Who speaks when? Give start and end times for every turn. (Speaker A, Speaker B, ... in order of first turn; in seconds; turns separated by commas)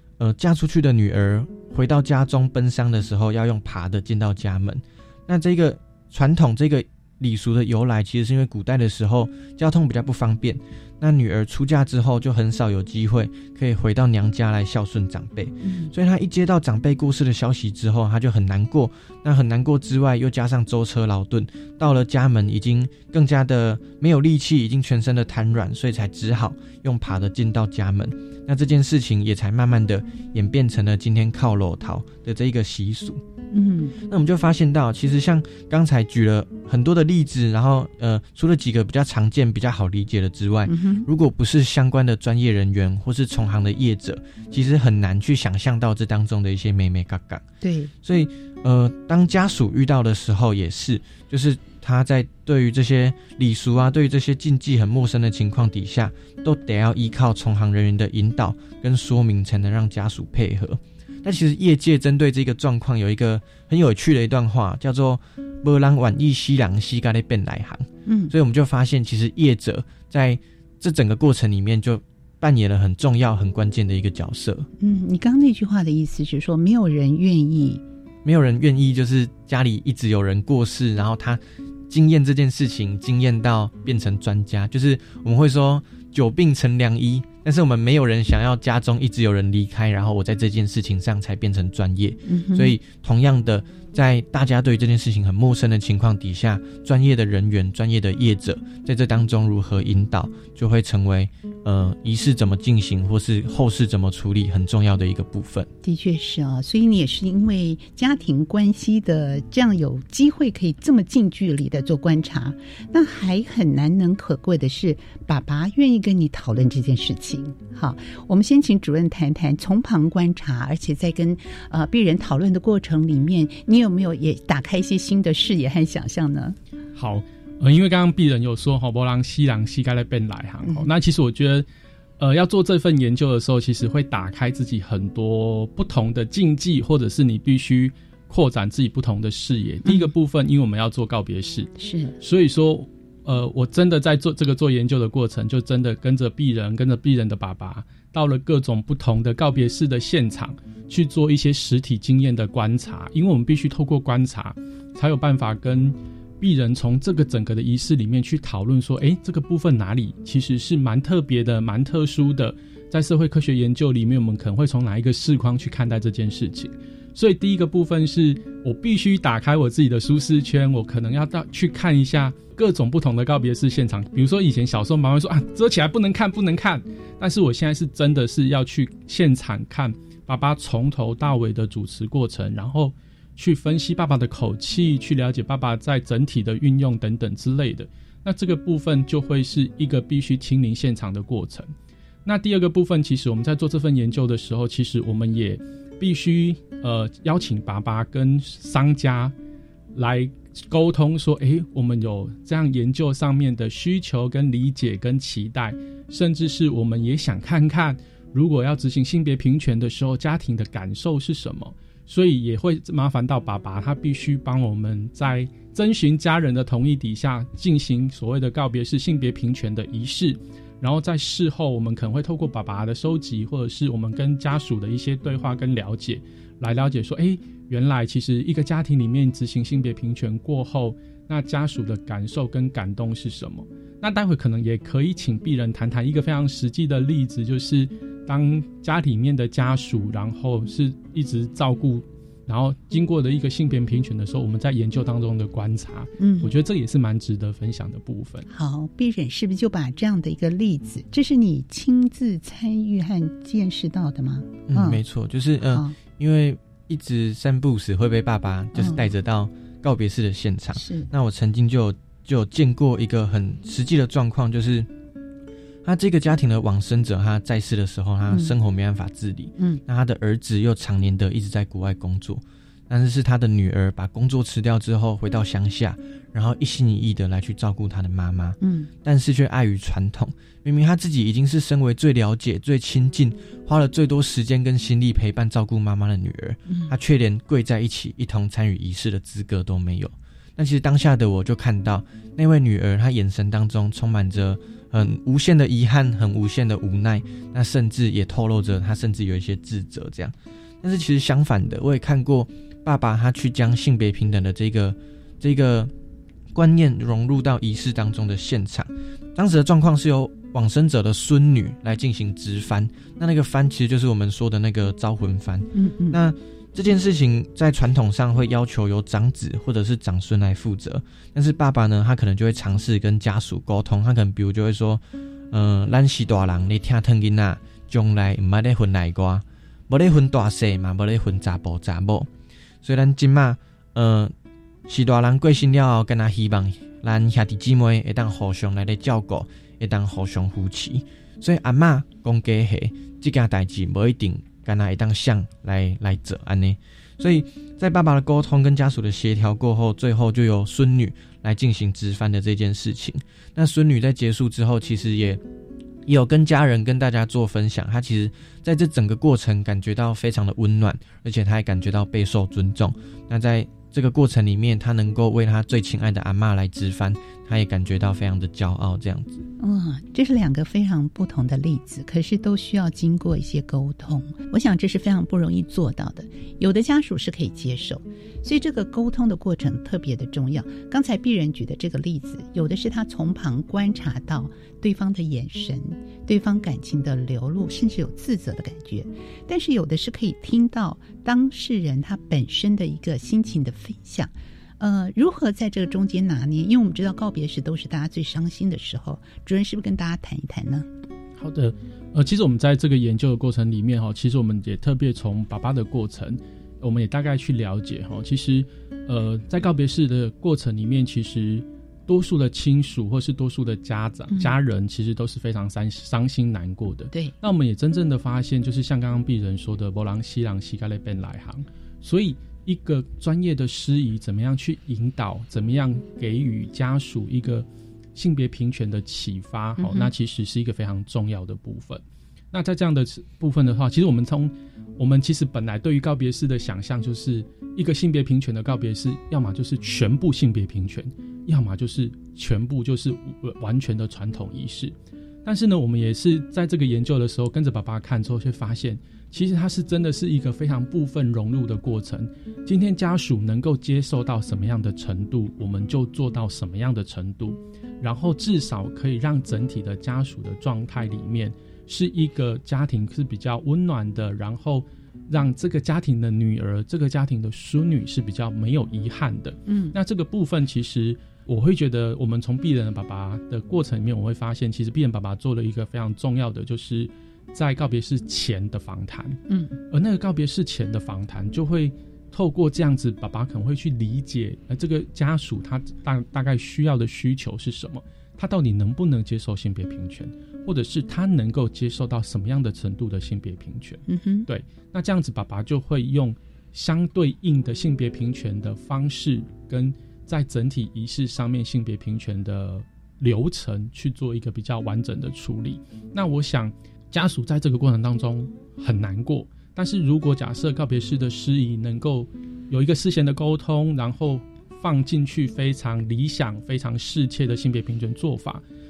Speaker A: 0.2-33.2, Speaker B: 15.6-15.9, Speaker B: 33.5-34.0, Speaker A: 34.1-47.4, Speaker B: 40.7-41.1, Speaker B: 47.6-47.9, Speaker A: 48.0-74.7, Speaker B: 68.1-68.3, Speaker B: 74.8-77.8, Speaker A: 78.2-105.7, Speaker B: 92.3-92.8, Speaker B: 105.8-126.6, Speaker C: 127.0-131.7, Speaker B: 130.6-130.9, Speaker C: 132.2-191.7, Speaker B: 139.8-140.1, Speaker B: 141.8-142.2, Speaker C: 192.2-199.3, Speaker C: 199.9-248.5, Speaker B: 246.2-246.5, Speaker B: 248.5-255.0, Speaker A: 254.7-264.9, Speaker B: 255.6-255.9, Speaker B: 258.8-259.1, Speaker B: 260.7-261.1, Speaker A: 265.9-305.9, Speaker B: 268.3-268.6, Speaker B: 278.6-278.9, Speaker B: 286.7-286.9, Speaker A: 306.5-332.3, Speaker B: 315.7-316.2, Speaker A: 332.8-334.3, Speaker A: 334.9-355.4, Speaker A: 356.1-369.4, Speaker B: 369.6-400.9, Speaker C: 401.4-518.6, Speaker B: 414.3-414.6, Speaker B: 429.8-430.1, Speaker B: 469.7-470.0, Speaker B: 479.5-479.8, Speaker B: 494.1-494.5